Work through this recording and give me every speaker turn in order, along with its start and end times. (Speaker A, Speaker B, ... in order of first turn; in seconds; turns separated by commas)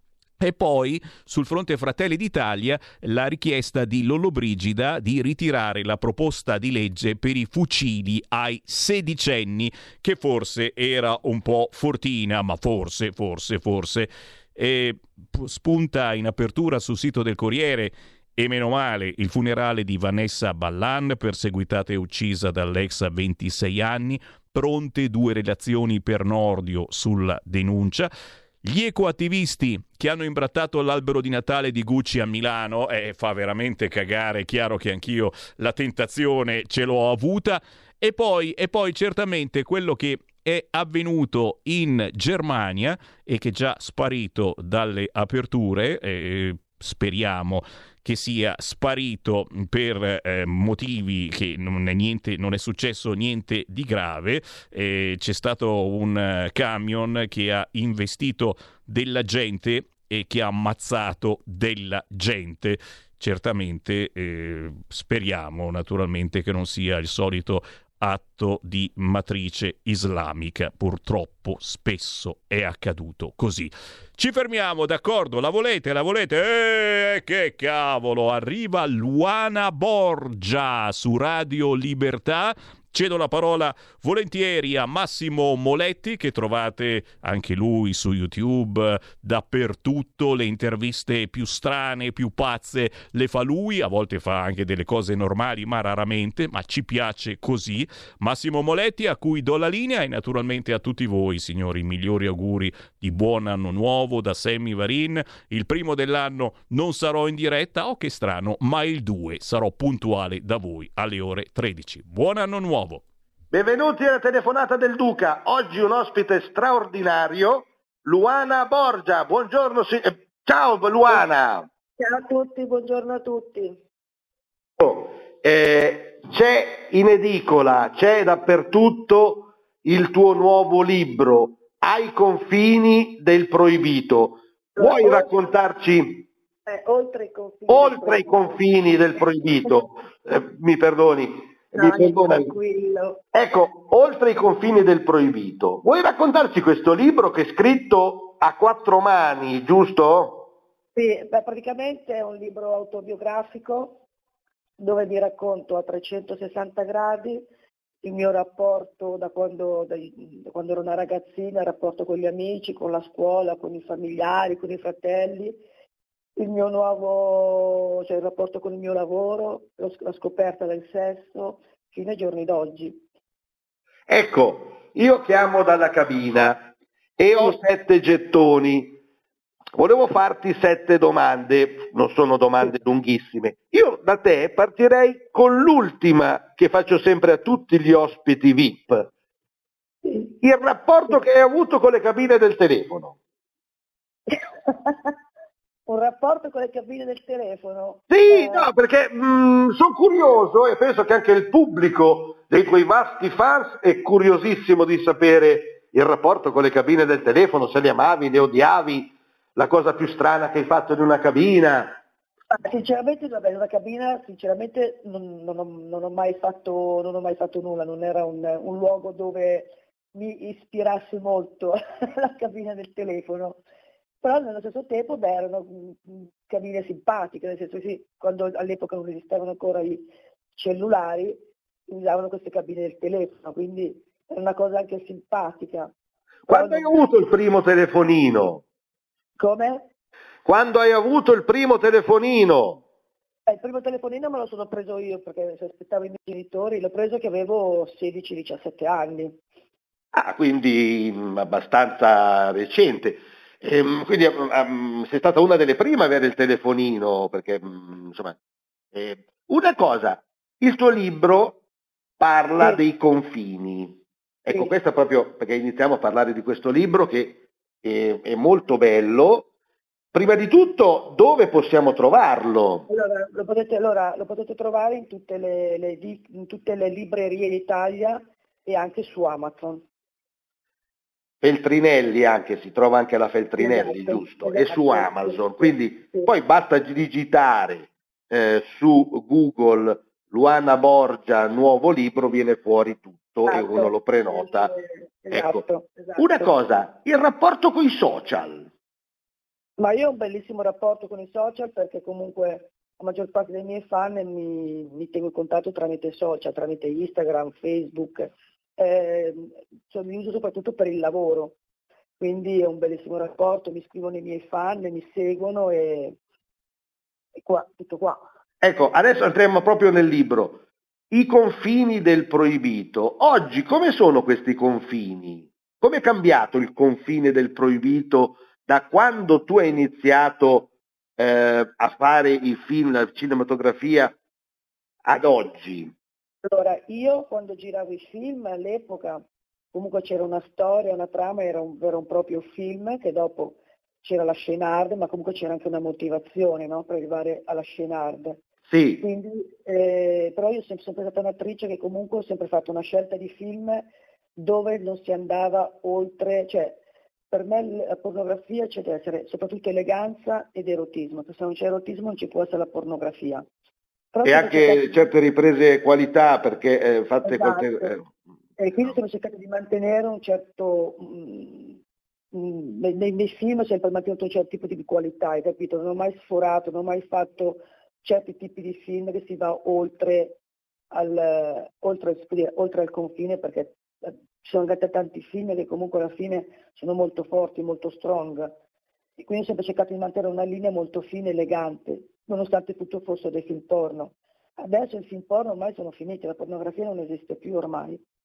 Speaker A: 0.4-28.1, Speaker A: 28.6-113.0, Speaker B: 113.5-121.7, Speaker C: 122.0-123.8, Speaker B: 124.8-136.3, Speaker C: 134.8-135.5, Speaker C: 136.7-138.7, Speaker B: 137.7-142.5, Speaker C: 141.7-143.2, Speaker B: 143.3-150.5, Speaker C: 150.9-154.0, Speaker C: 154.8-157.5, Speaker C: 158.0-165.6, Speaker C: 166.4-173.0, Speaker B: 174.1-179.0, Speaker B: 179.8-189.1, Speaker C: 190.0-190.3, Speaker B: 190.4-193.2, Speaker C: 194.3-195.1, Speaker C: 195.9-198.7, Speaker B: 198.1-212.0, Speaker C: 212.5-223.6, Speaker C: 224.2-235.9, Speaker B: 236.5-238.6, Speaker C: 236.5-237.0, Speaker C: 239.4-239.9, Speaker B: 240.4-242.8, Speaker C: 243.5-249.4, Speaker B: 250.1-258.4, Speaker B: 258.9-261.6, Speaker B: 262.2-269.5, Speaker B: 270.1-272.9, Speaker C: 272.9-279.9, Speaker B: 281.4-294.7, Speaker C: 283.6-286.3, Speaker C: 293.5-296.6, Speaker B: 295.3-295.6, Speaker B: 296.2-298.7, Speaker C: 299.8-311.6, Speaker C: 312.2-316.2, Speaker C: 317.4-318.3, Speaker B: 318.6-320.6, Speaker B: 321.1-334.1, Speaker B: 335.1-335.9, Speaker C: 336.4-339.2, Speaker C: 339.7-348.4, Speaker B: 348.7-349.1, Speaker C: 349.0-356.8, Speaker C: 357.3-363.5, Speaker C: 364.1-365.0, Speaker B: 364.2-368.2, Speaker C: 367.2-367.9, Speaker C: 368.6-371.8, Speaker C: 372.3-380.4, Speaker C: 380.9-388.6, Speaker C: 389.2-398.0